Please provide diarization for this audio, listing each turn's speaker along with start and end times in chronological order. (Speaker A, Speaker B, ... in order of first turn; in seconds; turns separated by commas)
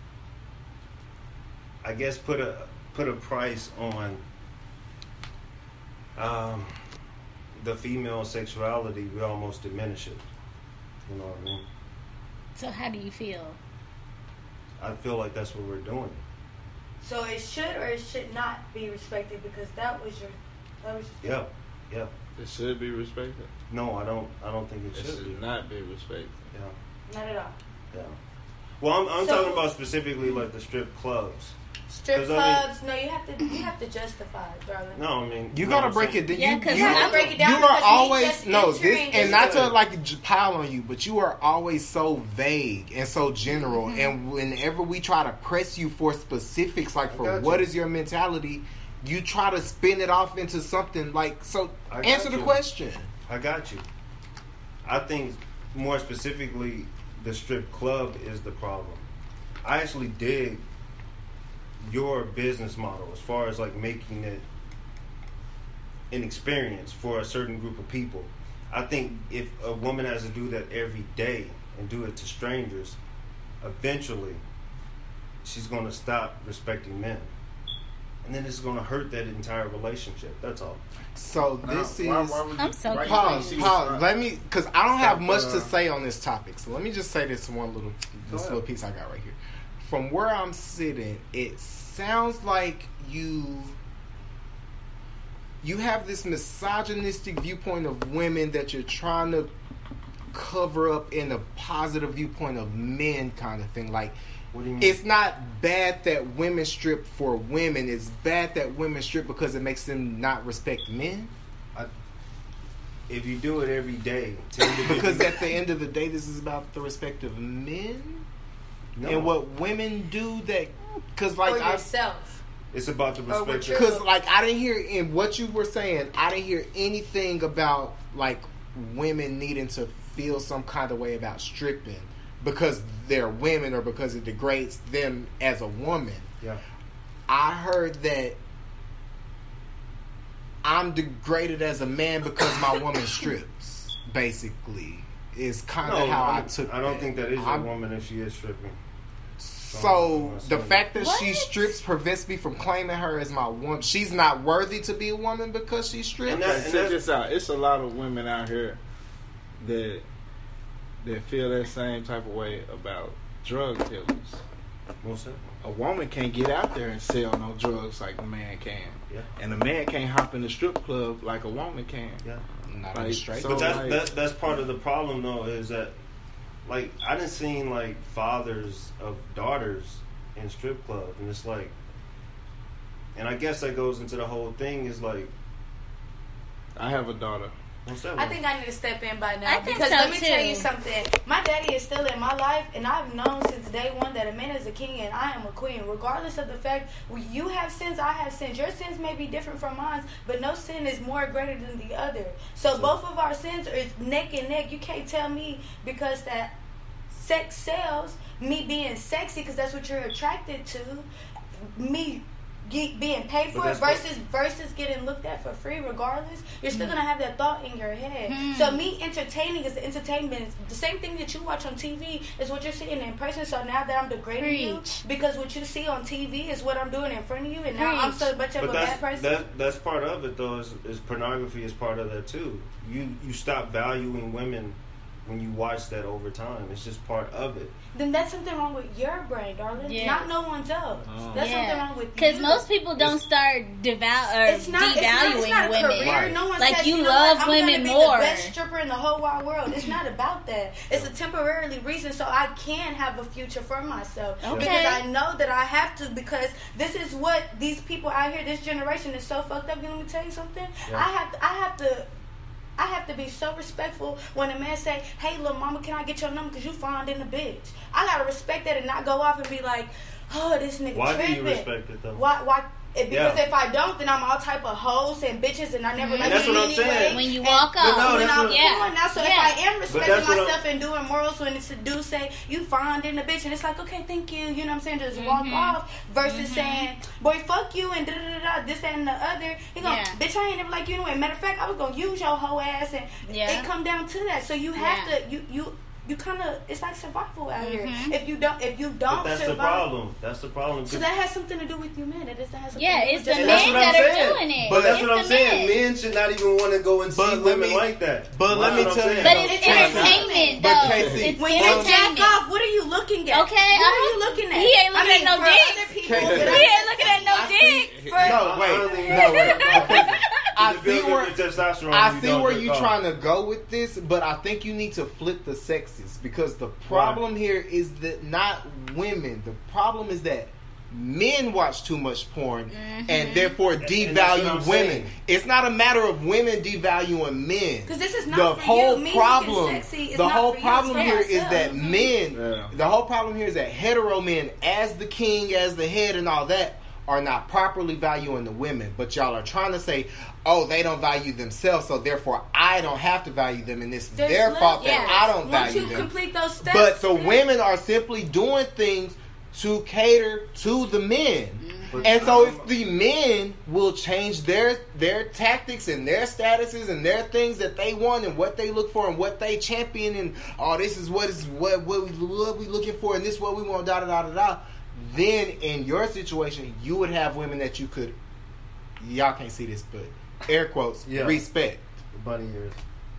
Speaker A: 1.8-4.2, Speaker A: 6.2-6.7, Speaker A: 7.6-10.2, Speaker A: 11.1-11.7, Speaker B: 12.6-13.6, Speaker A: 14.8-16.2, Speaker C: 17.0-21.4, Speaker A: 21.2-22.1, Speaker D: 22.4-23.5, Speaker A: 23.7-25.4, Speaker D: 24.9-26.5, Speaker C: 27.1-27.6, Speaker A: 27.9-28.2, Speaker A: 28.8-31.5, Speaker C: 29.2-29.7, Speaker C: 31.9-35.0, Speaker A: 32.1-32.7, Speaker B: 33.4-33.7, Speaker A: 34.9-37.4, Speaker E: 35.5-53.1, Speaker B: 36.3-37.3, Speaker C: 36.7-39.6, Speaker A: 39.1-39.8, Speaker B: 43.6-44.1, Speaker A: 47.1-47.7, Speaker A: 51.9-52.6, Speaker A: 53.3-53.9, Speaker A: 54.9-59.1, Speaker A: 59.6-60.6, Speaker A: 61.8-64.4, Speaker A: 66.1-73.0, Speaker A: 73.6-74.4, Speaker A: 75.4-77.3, Speaker A: 78.2-80.8, Speaker E: 81.2-93.8, Speaker D: 81.6-84.0, Speaker B: 82.6-83.7, Speaker D: 85.0-85.7, Speaker A: 88.3-88.6, Speaker E: 95.6-99.5, Speaker E: 100.3-104.2, Speaker A: 104.5-105.0, Speaker E: 104.8-111.3, Speaker A: 113.1-115.4, Speaker E: 114.8-118.2, Speaker A: 119.0-119.3, Speaker E: 119.0-121.8, Speaker C: 121.5-122.4, Speaker A: 122.7-123.9, Speaker C: 123.3-124.0, Speaker E: 123.7-136.3, Speaker E: 137.3-138.4, Speaker E: 140.6-147.7, Speaker A: 145.8-148.8, Speaker E: 149.4-156.6, Speaker A: 149.7-150.8, Speaker B: 151.0-151.8, Speaker A: 156.3-157.0, Speaker D: 156.4-158.8, Speaker D: 159.6-160.0, Speaker D: 161.0-164.4, Speaker A: 165.0-165.4, Speaker D: 165.6-172.2, Speaker E: 172.7-173.9, Speaker D: 172.9-174.1, Speaker A: 173.4-175.9, Speaker A: 176.7-181.7, Speaker A: 183.2-185.3, Speaker D: 186.8-187.5, Speaker A: 187.8-188.4, Speaker C: 188.2-206.6, Speaker B: 189.4-190.7, Speaker A: 202.7-203.0, Speaker C: 207.1-211.1, Speaker C: 211.6-229.3, Speaker A: 213.5-214.0, Speaker B: 216.7-217.0, Speaker B: 218.3-218.9, Speaker B: 224.4-225.0, Speaker B: 227.8-228.3, Speaker A: 228.6-237.7, Speaker C: 237.9-242.7, Speaker B: 239.8-240.3, Speaker D: 241.1-241.5, Speaker B: 241.3-248.6, Speaker C: 244.4-262.1, Speaker A: 246.0-246.4, Speaker B: 254.4-255.0, Speaker A: 254.5-254.7, Speaker C: 262.8-299.9, Speaker A: 270.9-272.2, Speaker A: 273.1-273.4, Speaker B: 276.0-279.6, Speaker A: 276.2-277.3, Speaker A: 277.8-278.7, Speaker A: 279.9-280.6, Speaker B: 285.1-286.9, Speaker B: 289.8-290.2, Speaker B: 293.2-293.7, Speaker B: 294.8-295.1, Speaker B: 297.6-298.2, Speaker A: 299.1-301.1, Speaker C: 300.9-304.2, Speaker B: 302.8-305.8, Speaker A: 303.3-310.3, Speaker E: 304.6-305.1, Speaker E: 307.1-312.2, Speaker C: 308.6-319.8, Speaker B: 309.2-312.4, Speaker D: 310.9-311.3, Speaker B: 313.3-318.0, Speaker E: 316.0-378.2, Speaker D: 316.2-316.6, Speaker D: 317.9-318.3, Speaker A: 318.2-323.0, Speaker B: 319.1-320.5, Speaker A: 326.9-327.2, Speaker B: 332.7-333.6, Speaker A: 333.8-335.1, Speaker C: 337.9-341.9, Speaker B: 340.9-342.1, Speaker D: 342.3-342.7, Speaker C: 354.1-357.4, Speaker B: 354.8-356.1, Speaker B: 361.6-362.3, Speaker A: 361.9-362.7, Speaker E: 379.0-381.8, Speaker A: 381.1-381.4, Speaker A: 382.1-382.8